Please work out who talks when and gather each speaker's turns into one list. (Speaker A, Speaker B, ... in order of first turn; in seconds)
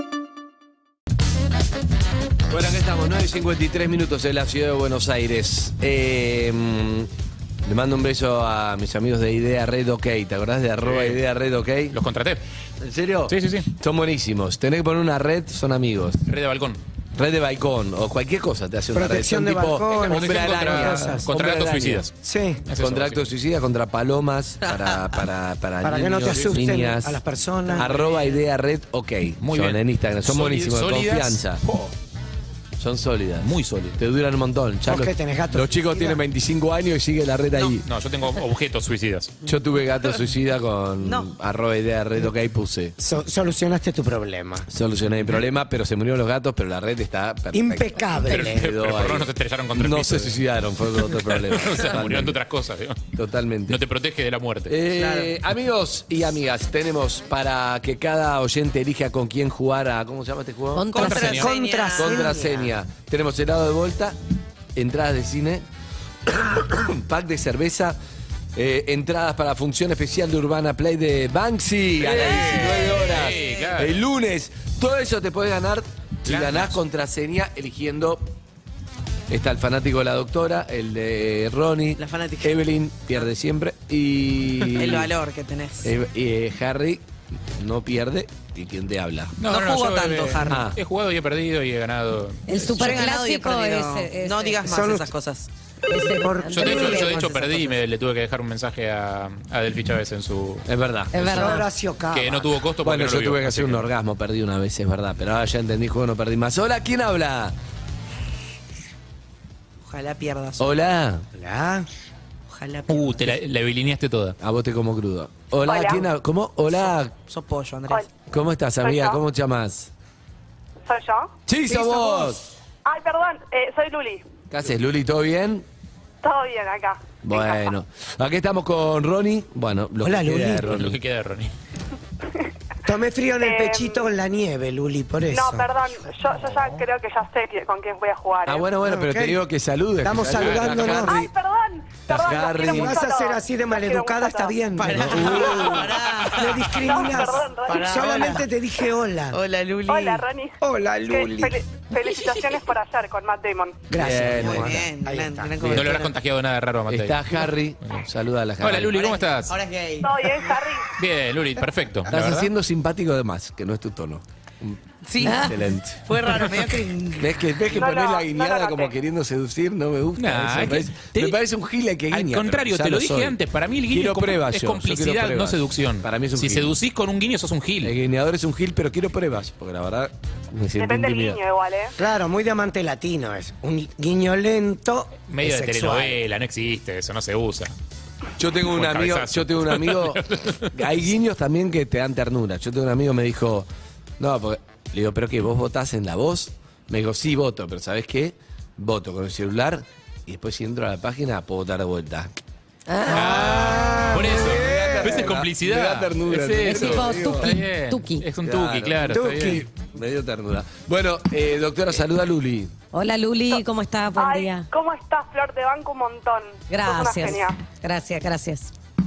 Speaker A: 2.5-7.1, 7.6-12.0, 12.8-16.3, 17.1-22.1, 22.8-27.2, 27.8-31.6, 32.8-37.9, 39.5-43.0, 44.7-52.4, 53.1-53.8, 54.7-60.9, 62.0-64.2, 64.8-65.7, 66.3-68.0, 68.5-78.3, 79.3-85.1, 85.8-89.4, 90.4-90.8, 100.7-101.6, 102.8-107.6, 110.6-111.3, 114.4-117.1, 118.3-119.9, 121.5-122.4, 124.5-125.7, 127.2-131.0, 138.5-141.3, 142.1-143.0, 144.9-145.9, 153.9-154.9, 155.6-155.9, 156.9-159.1, 162.1-166.0, 167.2-173.4, 173.9-176.7, 177.8-181.4, 188.4-202.3, 204.3-207.6, 208.4-212.7
Speaker B: 10.8-11.2, 11.9-12.4, 13.3-13.7, 16.3-16.8, 19.9-22.1, 22.7-23.3, 26.3-26.6, 29.4-31.9, 33.4-34.0, 37.9-39.3, 48.3-50.4, 51.0-53.1, 53.7-54.8, 60.9-61.5, 72.0-74.0, 76.3-76.7, 89.4-93.0, 96.5-100.7, 102.1-103.9, 112.9-114.4, 130.7-131.5, 140.3-140.8, 155.7-157.3, 158.6-159.6, 161.0-162.5, 170.2-171.4, 172.1-177.9, 185.3-187.7, 188.7-190.8, 203.1-209.7
Speaker C: 18.9-21.2, 22.2-22.6, 25.8-28.1, 34.9-36.2, 43.0-44.7, 47.5-48.7, 61.2-62.7, 94.7-95.1, 96.2-97.2, 101.2-102.5, 111.3-111.9, 130.0-130.7, 132.9-135.8, 138.8-139.4, 140.0-141.3, 142.3-149.4, 150.6-151.6, 153.9-155.8, 182.0-186.2, 203.1-205.3, 209.1-209.7
Speaker D: 27.7-28.3, 41.0-41.3, 55.0-55.3, 60.9-62.3, 73.1-73.6, 82.0-82.6, 84.7-85.9, 89.5-90.6, 92.7-95.5, 96.8-97.7, 109.8-110.7, 112.5-113.3, 117.3-118.0, 144.8-146.6, 147.7-148.5, 149.3-150.2, 154.2-156.1, 159.5-160.1, 165.0-165.5, 166.1-167.3
Speaker E: 60.8-61.4, 92.5-94.7, 95.9-97.7, 101.1-101.7, 165.2-165.6, 202.9-203.3, 206.7-208.3, 212.9-214.7, 216.7-218.7
Speaker F: 115.6-116.0, 118.8-119.2, 120.8-121.3, 122.8-124.2, 126.2-127.7, 133.4-134.1, 135.3-138.7, 140.9-144.7, 146.8-148.2, 149.9-153.9, 160.0-160.9, 167.7-168.9, 180.8-181.9, 214.2-217.6